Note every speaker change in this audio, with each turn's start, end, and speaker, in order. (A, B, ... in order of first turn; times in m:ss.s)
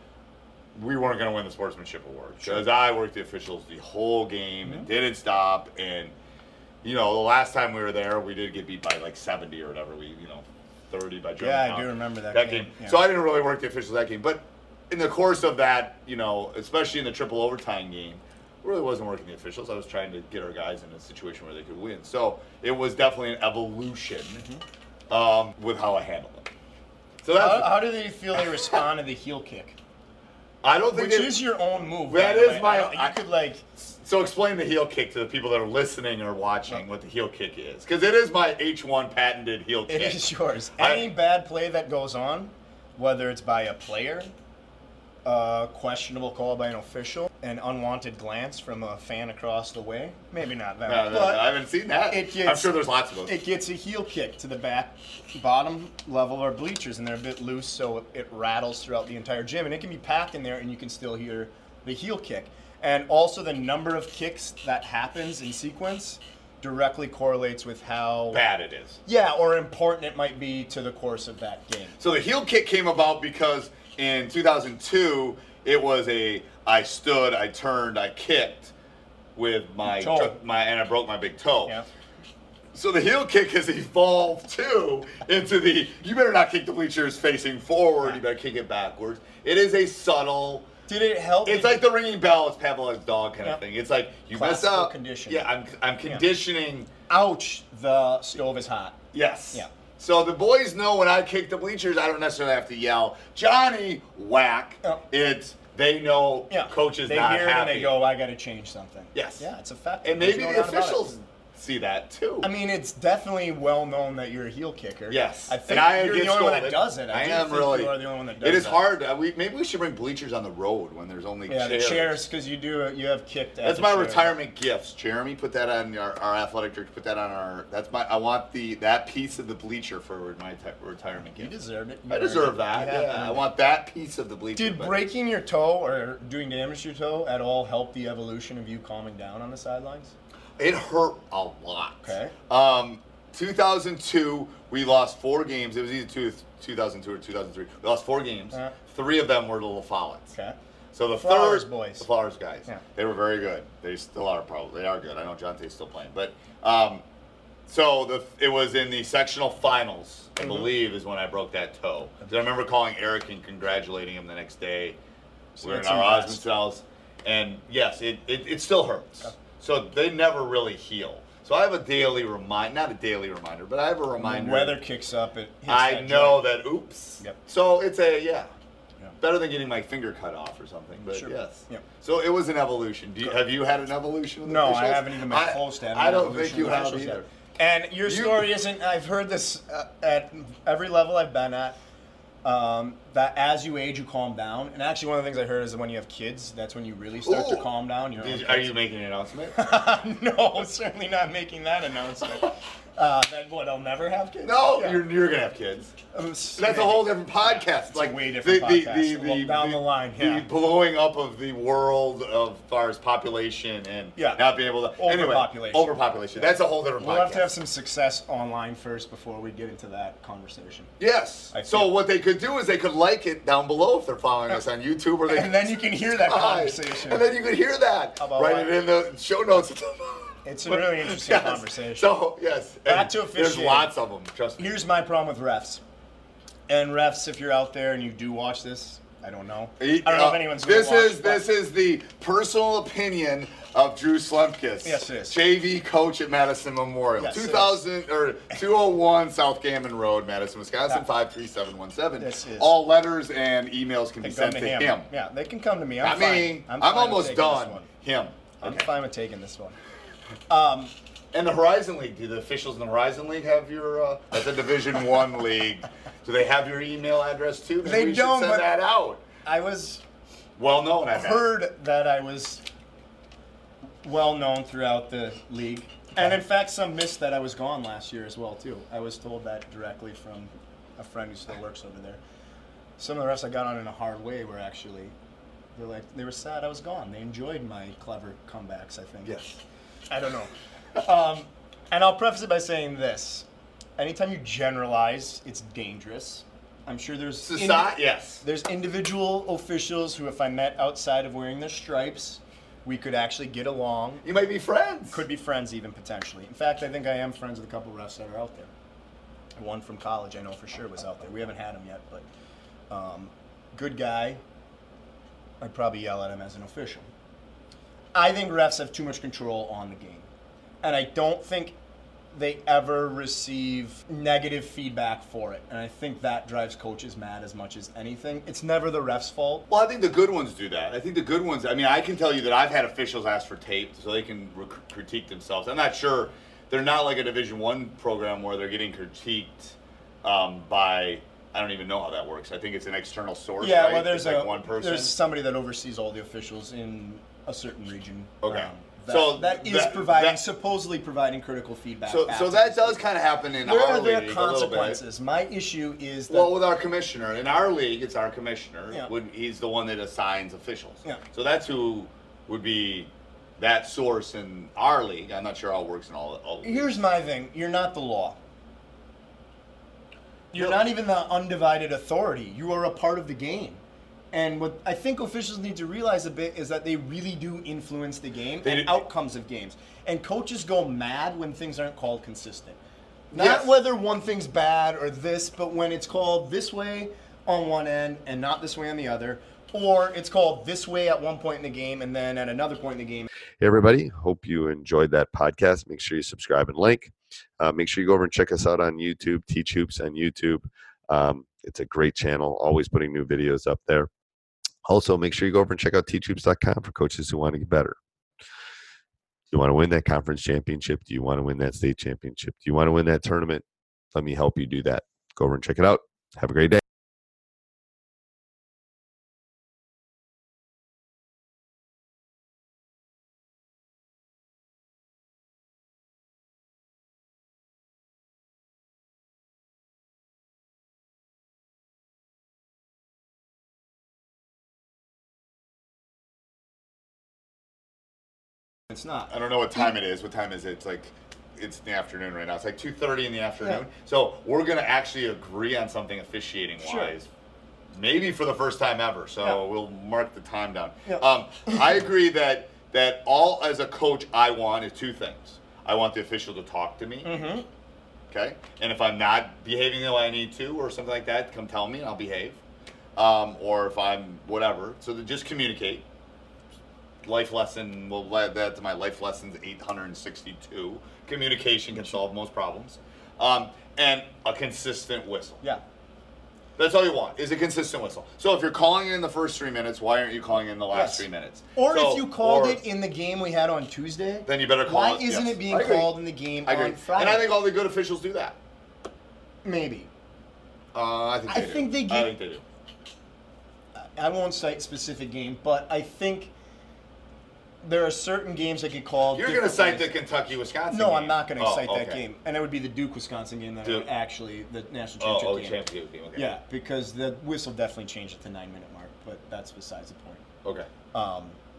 0:00.8-0:06.2 A
0:02.4-0:02.7 B
0:06.8-0:24.4 A
0:11.4-0:13.0 B
0:25.1-0:26.5 A
0:27.2-0:27.9 A
0:27.3-0:29.8 B
0:30.6-0:31.5 A
0:30.9-0:33.6 B
0:32.1-0:33.2 A
0:33.8-0:41.1 A
0:39.9-0:44.3 B
0:45.2-0:51.5 B
0:50.9-0:53.4 A
0:52.1-1:08.4 B
1:08.3-1:09.0 A
1:09.1-1:12.0 B
1:12.0-1:18.7 A
1:19.4-1:21.8 A
1:19.8-1:20.4 B
1:22.7-1:30.7 A
1:30.9-1:31.8 B
1:31.4-1:36.9 A
1:34.3-1:35.5 B
1:37.1-1:39.0 B
1:39.1-1:48.0 A
1:46.5-1:51.2 B
1:49.1-1:49.5 A
1:50.0-1:52.5 A
1:52.4-1:58.8 B
1:55.1-2:02.2 A
2:01.5-2:04.4 B
2:03.6-2:11.5 A
2:11.2-2:13.5 B
2:12.1-2:15.0 A
2:14.6-2:20.1 B
2:20.6-2:30.3 A
2:22.0-2:22.3 B
2:30.9-2:37.0 A
2:31.2-2:32.1 B
2:37.7-2:45.0 A
2:40.4-2:40.7 B
2:45.6-2:46.4 B
2:45.6-2:54.8 A
2:54.2-2:56.5 B
2:55.7-2:58.5 A
2:59.2-3:07.3 A
3:01.1-3:01.8 B
3:04.4-3:11.8 B
3:08.0-3:08.5 A
3:12.4-3:18.7 B
3:17.2-3:19.6 A
3:19.6-3:25.0 B
3:24.4-3:26.0 A
3:26.1-3:30.5 B
3:26.6-3:37.5 A
3:34.2-3:34.4 B
3:35.0-3:40.9 B
3:41.0-3:54.8 A
3:41.5-3:41.9 B
3:45.3-3:47.2 B
3:48.2-3:48.8 B
3:50.4-3:52.1 B
3:52.9-3:53.9 B
3:54.6-3:55.8 B
3:56.7-4:01.5 B
3:59.8-4:15.1 A
4:04.8-4:05.4 B
4:07.2-4:07.8 B
4:12.2-4:12.8 B
4:14.2-4:17.9 B
4:16.0-4:18.9 A
4:18.6-4:19.8 B
4:20.5-4:20.9 B
4:21.3-4:29.2 A
4:27.8-4:28.7 B
4:29.4-4:30.0 B
4:30.6-4:31.4 A
4:31.1-4:32.6 B
4:34.0-4:42.2 B
4:43.0-4:45.1 B
4:45.8-4:49.4 B
4:49.2-4:49.6 A
4:50.1-4:53.5 B
4:54.0-5:04.3 B
4:57.4-4:58.4 A
5:04.2-5:05.2 A
5:05.1-5:08.7 B
5:09.6-5:12.2 B
5:12.9-5:14.4 B
5:15.6-5:17.1 B
5:18.1-5:20.3 B
5:20.8-5:21.8 B
5:22.3-5:29.7 B
5:29.7-5:45.2 A
5:43.6-5:53.0 B
5:48.4-5:50.4 A
5:52.1-5:55.0 A
5:53.6-5:56.5 B
5:56.3-6:07.0 A
6:06.6-6:08.4 B
6:10.5-6:13.8 B
6:10.5-6:10.8 A
6:14.3-6:22.8 B
6:18.6-6:19.0 A
6:23.3-6:23.7 A
6:23.3-6:33.3 B
6:33.6-6:44.1 C
6:44.9-6:48.0 C
6:49.5-6:56.8 C
7:18.9-7:19.3 B
7:19.3-7:27.3 A
7:26.8-7:27.1 B
7:27.9-7:37.5 A
7:31.1-7:31.8 B
7:37.2-7:37.7 B
7:38.3-7:42.6 A
7:43.2-7:46.0 A
7:47.2-7:55.6 A
7:56.8-8:02.8 A
8:00.9-8:07.5 B
8:04.5-8:08.6 A
8:09.6-8:10.1 B
8:10.9-8:12.6 A
8:11.5-8:12.3 B
8:14.0-8:16.5 B
8:17.8-8:20.2 B
8:19.3-8:22.2 A
8:20.9-8:25.8 B
8:25.2-8:26.5 A
8:26.4-8:30.4 B
8:30.6-8:30.9 A
8:31.1-8:31.6 B